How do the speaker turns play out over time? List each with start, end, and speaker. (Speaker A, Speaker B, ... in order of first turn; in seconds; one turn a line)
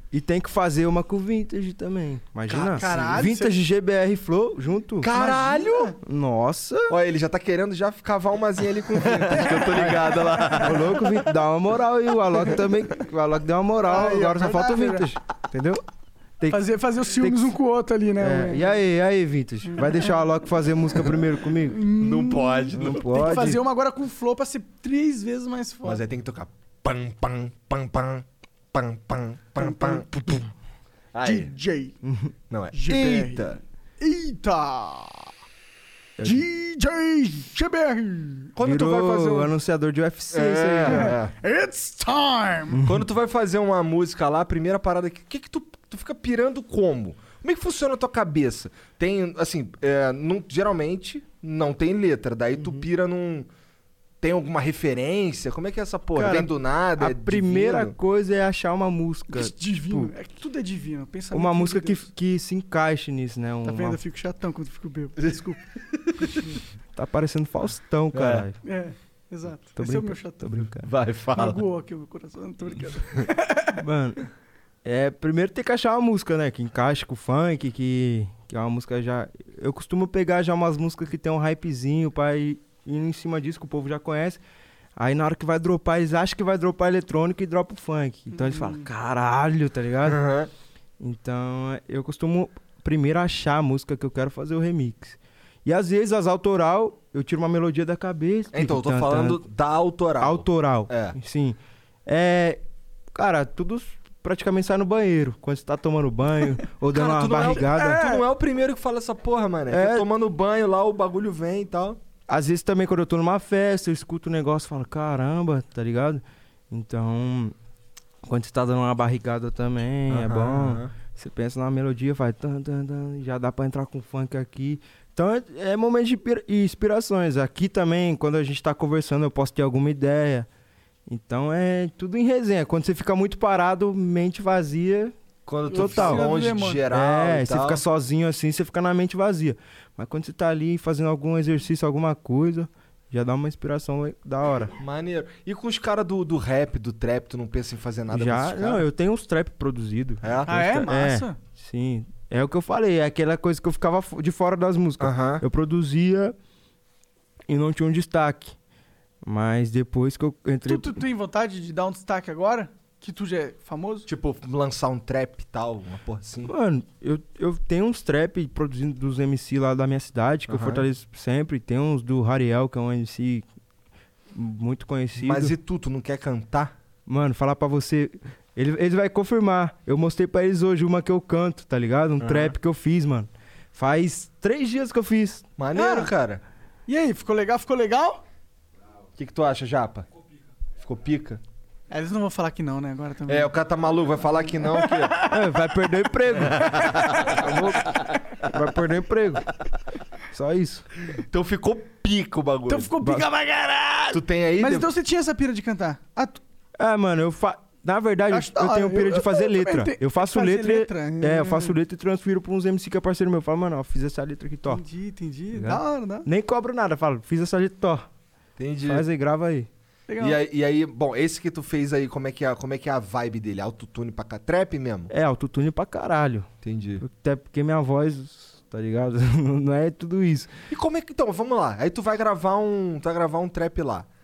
Speaker A: 0.1-5.1
Speaker B: 2.5-3.6
Speaker C: 5.0-6.0
Speaker B: 5.1-6.0
Speaker A: 6.0-6.9
Speaker C: 6.9-11.1
Speaker B: 9.3-9.8
Speaker A: 9.7-15.8
Speaker B: 13.8-15.1
Speaker A: 16.4-17.6
Speaker B: 16.5-18.8
Speaker A: 18.2-21.8
Speaker B: 19.7-20.2
Speaker B: 21.6-26.0
Speaker C: 22.0-23.4
Speaker A: 22.8-23.6
Speaker C: 25.9-30.5
Speaker B: 29.6-30.4
Speaker C: 31.1-31.5
Speaker B: 31.2-31.9
Speaker A: 32.0-32.3
Speaker C: 32.5-33.6
Speaker B: 32.7-35.3
Speaker A: 36.2-36.4
Speaker B: 36.2-38.5
Speaker C: 38.5-39.5
Speaker A: 38.6-41.2
Speaker C: 40.3-41.3
Speaker B: 40.9-42.8
Speaker A: 42.7-43.0
Speaker C: 42.8-53.5
Speaker C: 54.2-58.0
Speaker A: 56.1-60.1
Speaker B: 59.3-62.1
Speaker A: 61.3-64.0
Speaker B: 63.6-65.6
Speaker A: 67.0-68.6
Speaker C: 68.1-68.5
Speaker B: 68.6-70.7
Speaker A: 69.8-70.9
Speaker C: 70.8-71.6
Speaker B: 71.4-73.8
Speaker A: 73.7-74.2
Speaker A: 74.8-84.4
Speaker A: 85.0-90.2
Speaker B: 88.3-88.9
Speaker C: 90.0-90.5
Speaker A: 91.0-99.4
Speaker C: 98.5-101.2
Speaker A: 100.2-102.6
Speaker A: 103.1-108.0
Speaker C: 106.9-112.0
Speaker B: 107.4-108.2
Speaker A: 109.7-110.1
Speaker A: 112.3-117.5
Speaker A: 118.2-130.5
Speaker C: 120.1-120.9
Speaker A: 131.1-135.2
Speaker C: 135.5-137.8
Speaker B: 135.7-136.8
Speaker A: 135.7-136.3
Speaker A: 136.9-144.8
Speaker C: 144.8-148.8
Speaker A: 148.1-156.3
Speaker C: 150.2-150.5
Speaker B: 150.5-151.4
Speaker C: 155.0-155.4
Speaker A: 157.5-158.6
Speaker A: 159.2-161.0
Speaker B: 160.7-164.1
Speaker C: 164.1-166.5
Speaker A: 166.5-173.4
Speaker C: 170.5-170.8
Speaker A: 174.3-175.5
Speaker C: 175.2-176.7
Speaker A: 177.1-185.5
Speaker C: 182.2-182.6
Speaker C: 185.6-186.4
Speaker B: 185.7-186.1
Speaker B: 186.9-188.2
Speaker C: 189.2-190.1
Speaker C: 190.8-191.4
Speaker B: 191.9-193.5
Speaker C: 193.3-195.2
Speaker B: 194.8-195.5
Speaker A: 195.2-199.4
Speaker B: 196.5-197.3
Speaker A: 200.3-200.8
Speaker C: 201.3-202.9
Speaker B: 202.7-206.4
Speaker A: 203.0-203.2
Speaker C: 204.1-204.9
Speaker A: 206.8-214.8
Speaker B: 208.3-211.8
Speaker B: 214.7-216.3
Speaker A: 215.5-218.1
Speaker C: 218.6-219.1
Speaker A: 218.8-219.7
Speaker B: 220.1-220.4
Speaker C: 220.2-225.1
Speaker A: 225.1-226.5
Speaker C: 226.6-227.0
Speaker A: 227.0-230.5
Speaker C: 230.7-234.1